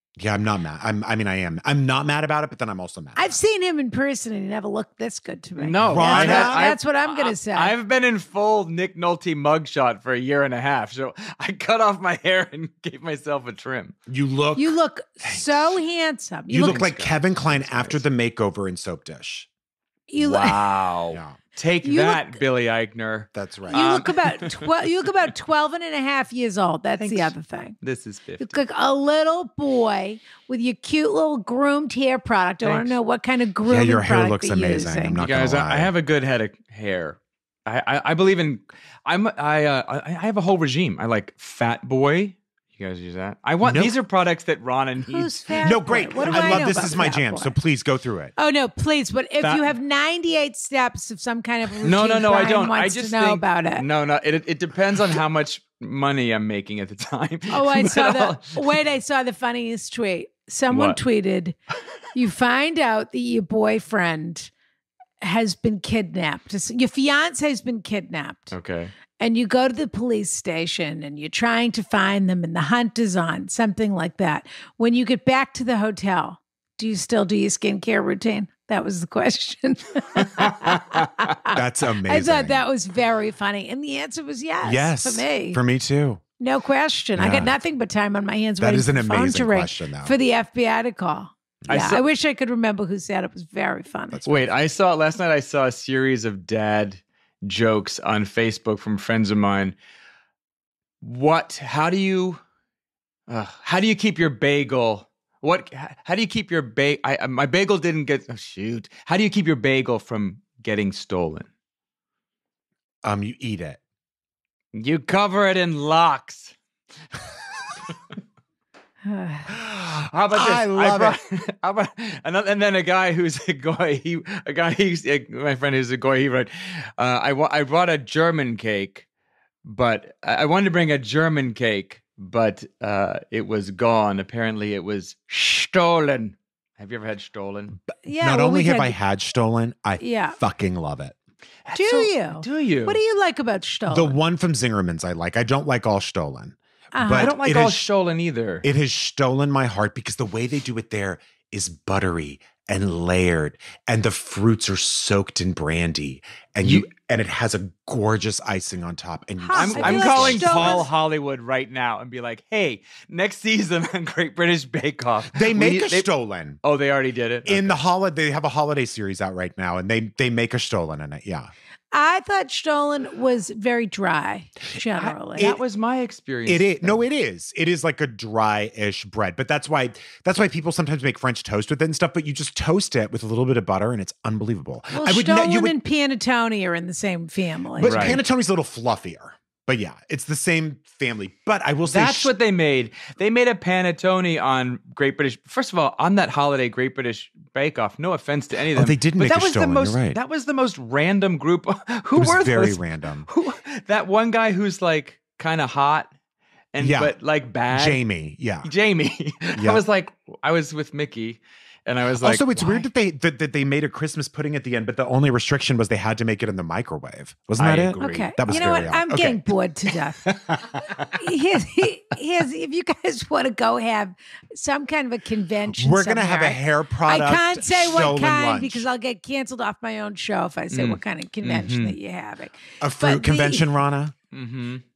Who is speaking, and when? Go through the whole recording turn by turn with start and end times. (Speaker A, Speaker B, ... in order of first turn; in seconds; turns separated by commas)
Speaker A: 0.2-3.4, Speaker B: 3.1-7.7, Speaker C: 5.6-13.9, Speaker A: 5.8-6.7, Speaker A: 14.1-15.8, Speaker B: 14.6-16.9, Speaker A: 16.5-19.5, Speaker C: 16.6-18.0, Speaker B: 20.1-20.6, Speaker C: 20.2-24.8, Speaker A: 21.1-21.4, Speaker B: 21.8-22.4, Speaker A: 23.3-23.9, Speaker B: 23.7-27.8, Speaker C: 27.0-28.6, Speaker B: 28.4-35.2, Speaker C: 32.6-33.0, Speaker A: 33.6-35.9, Speaker C: 35.2-45.5, Speaker A: 43.6-43.9, Speaker B: 45.1-47.5, Speaker A: 45.6-48.3, Speaker C: 46.2-46.7, Speaker B: 48.4-53.8, Speaker C: 49.4-49.6, Speaker C: 51.8-58.8, Speaker B: 57.5-61.6, Speaker C: 60.7-61.0, Speaker B: 62.1-64.5, Speaker B: 65.2-68.5, Speaker C: 68.5-68.9, Speaker B: 69.2-85.6, Speaker C: 80.2-81.1, Speaker A: 81.5-82.6, Speaker A: 84.6-86.2, Speaker B: 86.4-94.2, Speaker A: 87.2-87.6, Speaker A: 88.6-90.1, Speaker A: 91.6-91.9, Speaker C: 91.7-92.0, Speaker A: 94.1-94.5, Speaker C: 94.2-99.8, Speaker C: 101.0-102.4, Speaker C: 103.3-111.5, Speaker A: 113.0-113.8, Speaker C: 114.7-116.5, Speaker B: 119.0-119.5, Speaker C: 119.8-129.0, Speaker A: 120.3-121.2, Speaker C: 129.6-137.7, Speaker A: 137.9-141.1, Speaker B: 138.0-138.9, Speaker B: 140.0-140.4, Speaker C: 141.7-143.0, Speaker B: 141.7-144.2, Speaker A: 143.9-147.8, Speaker B: 146.9-147.3, Speaker C: 147.1-148.6, Speaker A: 148.6-160.8, Speaker B: 159.4-160.9, Speaker C: 159.5-166.1, Speaker A: 165.3-166.6, Speaker C: 166.6-167.8, Speaker A: 167.4-171.5, Speaker B: 171.9-175.5, Speaker C: 174.9-177.0, Speaker A: 175.3-175.6, Speaker A: 176.4-185.8, Speaker B: 184.9-188.2, Speaker A: 187.7-192.3, Speaker C: 187.8-188.2, Speaker C: 191.9-206.1, Speaker A: 198.7-200.2, Speaker A: 202.1-203.3, Speaker C: 206.7-208.0, Speaker A: 206.8-207.1, Speaker A: 207.7-208.7, Speaker C: 208.6-212.9, Speaker A: 209.5-209.8, Speaker A: 212.2-219.4, Speaker C: 217.6-218.3, Speaker B: 218.0-220.2, Speaker C: 220.2-221.2, Speaker B: 221.2-233.8, Speaker A: 225.7-228.8, Speaker C: 230.7-231.9, Speaker A: 232.8-234.1, Speaker C: 234.3-234.8